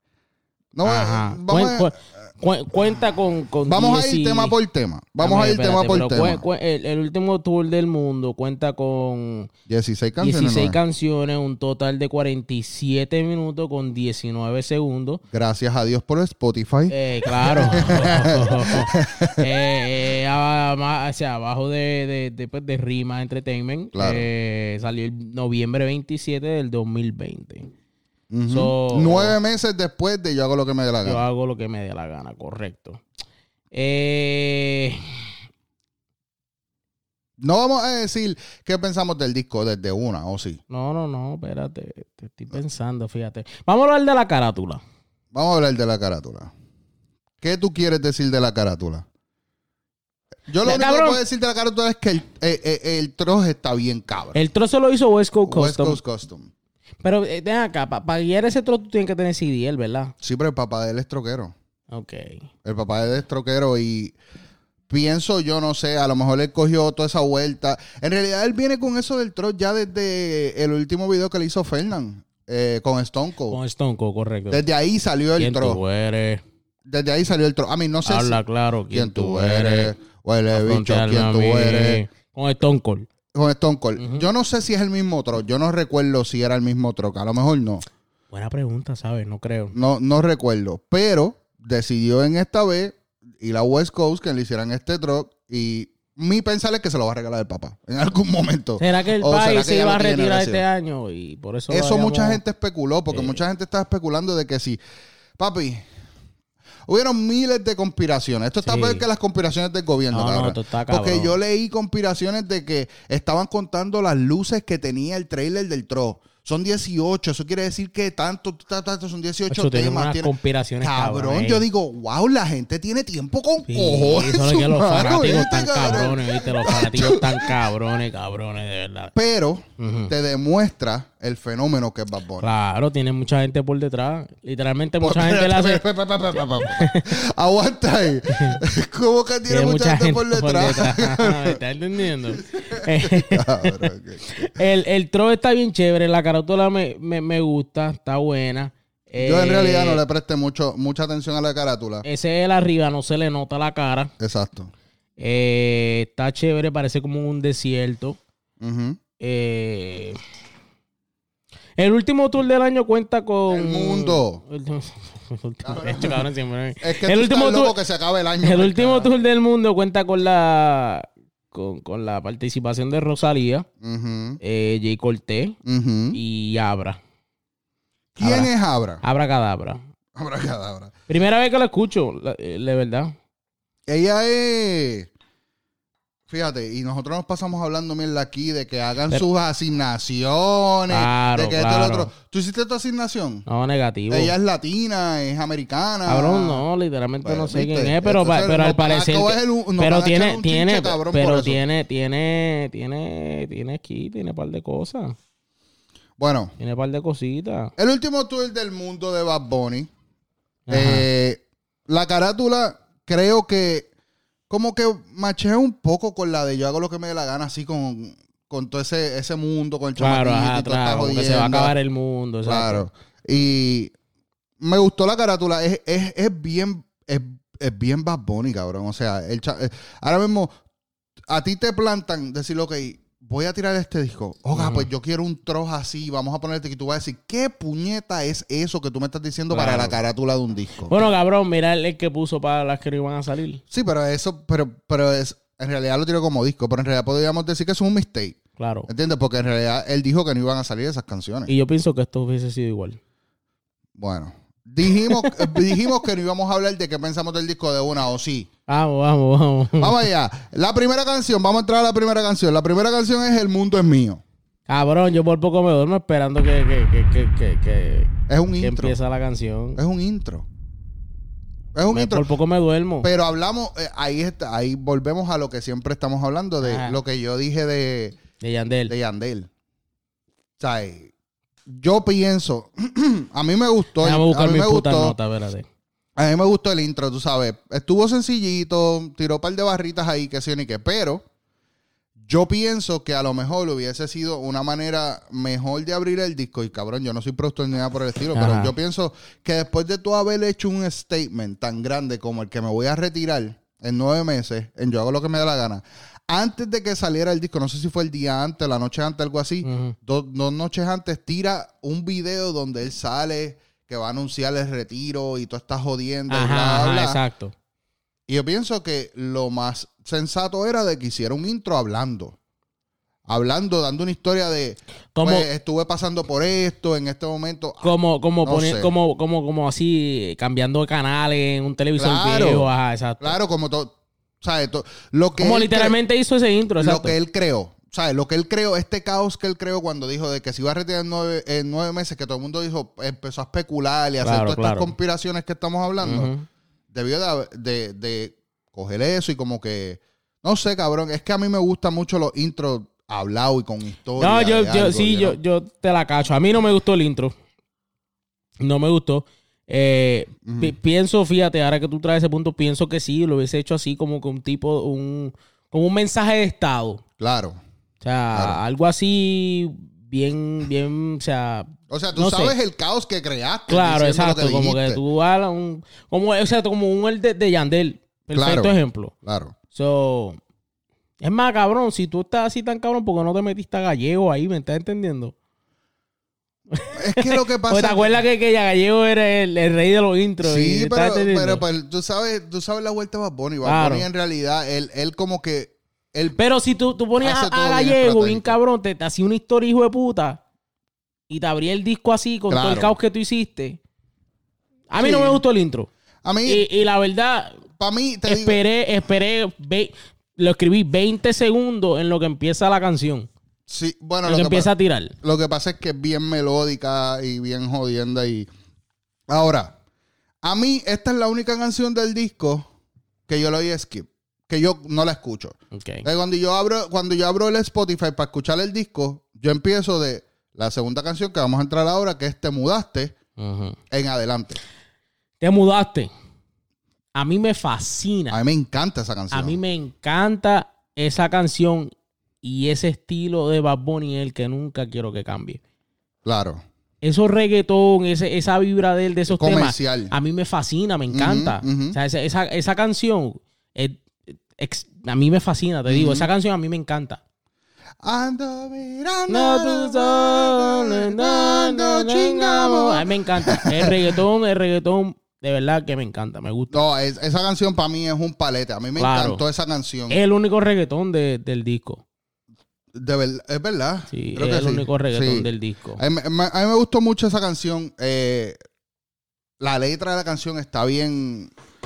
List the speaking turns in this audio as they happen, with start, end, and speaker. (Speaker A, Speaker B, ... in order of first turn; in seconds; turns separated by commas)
Speaker A: 0.7-1.9, Speaker B: 0.8-4.5, Speaker A: 3.6-6.4, Speaker B: 5.2-9.5, Speaker A: 9.7-10.8, Speaker B: 10.2-15.2, Speaker A: 15.3-19.5, Speaker B: 16.9-27.7, Speaker A: 23.9-24.3, Speaker A: 28.3-31.2, Speaker B: 28.5-29.4, Speaker B: 31.0-33.0, Speaker B: 33.7-35.3, Speaker A: 37.4-40.6, Speaker B: 40.7-44.8, Speaker A: 45.3-46.5, Speaker A: 47.4-49.0, Speaker A: 50.5-54.4, Speaker B: 50.6-51.2, Speaker B: 54.3-56.0, Speaker A: 55.5-56.5, Speaker B: 57.0-60.1, Speaker A: 60.2-61.5, Speaker B: 61.9-62.4, Speaker A: 62.6-64.1, Speaker A: 64.9-73.6, Speaker B: 73.5-74.6, Speaker A: 74.5-75.8, Speaker B: 75.4-76.4, Speaker A: 76.9-78.4, Speaker B: 78.0-79.9, Speaker A: 78.9-82.0, Speaker B: 80.5-83.1, Speaker A: 83.3-87.8, Speaker B: 84.0-84.3, Speaker B: 88.3-89.7, Speaker A: 89.7-100.6, Speaker B: 98.8-102.4, Speaker A: 101.7-104.8, Speaker B: 103.1-103.4, Speaker A: 105.4-105.8, Speaker A: 106.9-127.6, Speaker B: 108.6-109.0, Speaker B: 110.1-111.3, Speaker B: 119.5-121.6, Speaker B: 123.7-129.1, Speaker A: 129.1-132.5, Speaker B: 129.8-130.1, Speaker B: 132.4-135.8, Speaker A: 135.0-141.6, Speaker B: 136.6-137.2, Speaker B: 138.3-138.6, Speaker B: 139.5-150.0, Speaker A: 142.5-144.6, Speaker A: 149.2-152.0, Speaker B: 152.0-154.1, Speaker A: 154.2-154.7, Speaker B: 155.2-158.2, Speaker A: 158.6-159.0, Speaker B: 159.2-160.2, Speaker B: 161.8-167.8, Speaker A: 163.5-164.4, Speaker A: 165.6-166.3, Speaker A: 166.8-169.1, Speaker B: 168.4-173.7, Speaker A: 173.8-174.4, Speaker B: 174.4-175.6, Speaker A: 175.7-176.2, Speaker B: 176.1-177.0, Speaker A: 178.2-179.0, Speaker B: 178.2-178.5, Speaker B: 179.0-179.8, Speaker A: 180.2-180.9, Speaker B: 181.1-183.1, Speaker A: 183.9-185.1, Speaker A: 186.3-193.4, Speaker B: 190.9-192.1, Speaker B: 193.4-194.3, Speaker A: 194.1-196.6, Speaker B: 196.1-205.1, Speaker A: 197.2-201.6, Speaker A: 206.2-206.5, Speaker B: 206.6-207.7, Speaker A: 207.8-209.9, Speaker B: 210.7-211.1, Speaker A: 210.7-213.9, Speaker A: 214.5-221.7, Speaker B: 220.0-222.8, Speaker A: 222.4-223.9, Speaker A: 224.6-230.5, Speaker A: 231.3-241.1, Speaker B: 234.5-234.9, Speaker B: 239.5-240.0, Speaker B: 240.9-243.6, Speaker A: 243.7-251.5, Speaker B: 248.6-248.9, Speaker B: 251.5-253.0, Speaker A: 253.9-258.5, Speaker B: 254.9-255.6, Speaker B: 258.7-260.0, Speaker A: 259.8-264.2, Speaker B: 264.7-269.8, Speaker A: 268.3-269.0, Speaker A: 269.8-270.5, Speaker A: 271.7-272.2, Speaker B: 271.9-273.1, Speaker A: 273.0-278.2, Speaker B: 276.6-277.0, Speaker B: 278.4-278.9, Speaker A: 278.9-279.5, Speaker A: 280.6-281.1, Speaker A: 281.7-285.1, Speaker B: 284.0-285.7, Speaker A: 286.2-291.2, Speaker A: 292.2-317.2, Speaker B: 298.3-298.7, Speaker B: 309.6-309.9, Speaker B: 316.3-317.5, Speaker A: 318.3-322.4, Speaker A: 323.3-328.9, Speaker B: 325.1-325.5, Speaker B: 327.8-333.4, Speaker A: 332.0-335.9, Speaker B: 335.4-337.1, Speaker A: 336.8-346.3, Speaker B: 344.2-344.9, Speaker B: 346.0-346.4, Speaker A: 346.9-355.4, Speaker B: 354.2-357.3, Speaker B: 358.6-367.0, Speaker A: 360.4-360.7, Speaker A: 367.2-367.6, Speaker B: 368.0-372.6, Speaker A: 368.3-368.6, Speaker A: 371.9-375.0, Speaker B: 373.7-379.1, Speaker A: 378.3-379.5, Speaker B: 379.7-380.4, Speaker B: 381.2-385.3, Speaker B: 386.7-391.6, Speaker A: 386.9-388.2, Speaker A: 390.4-396.4, Speaker B: 393.6-394.1, Speaker B: 396.3-400.4, Speaker A: 397.2-398.6, Speaker B: 401.3-403.8, Speaker A: 402.5-402.9, Speaker B: 404.9-405.9, Speaker A: 405.0-405.4, Speaker A: 406.2-406.6, Speaker B: 406.4-407.6, Speaker A: 407.7-408.6, Speaker B: 408.2-413.3, Speaker A: 413.7-414.7, Speaker B: 414.2-415.1, Speaker A: 415.2-418.5, Speaker A: 419.3-419.8, Speaker A: 420.4-422.7, Speaker A: 423.3-433.1, Speaker B: 425.7-426.1, Speaker B: 433.4-433.8, Speaker A: 433.9-434.6, Speaker B: 435.4-436.1, Speaker B: 437.1-438.4, Speaker A: 438.3-439.6, Speaker B: 439.3-441.9, Speaker B: 442.4-445.6, Speaker A: 446.2-446.6, Speaker B: 447.0-457.2, Speaker A: 449.3-450.1, Speaker A: 451.1-452.0, Speaker A: 455.9-456.3, Speaker A: 458.0-464.2, Speaker B: 459.3-466.8, Speaker A: 466.7-470.2, Speaker B: 469.0-469.4, Speaker B: 470.1-472.0, Speaker A: 472.9-478.6, Speaker B: 474.1-476.0, Speaker A: 479.6-481.5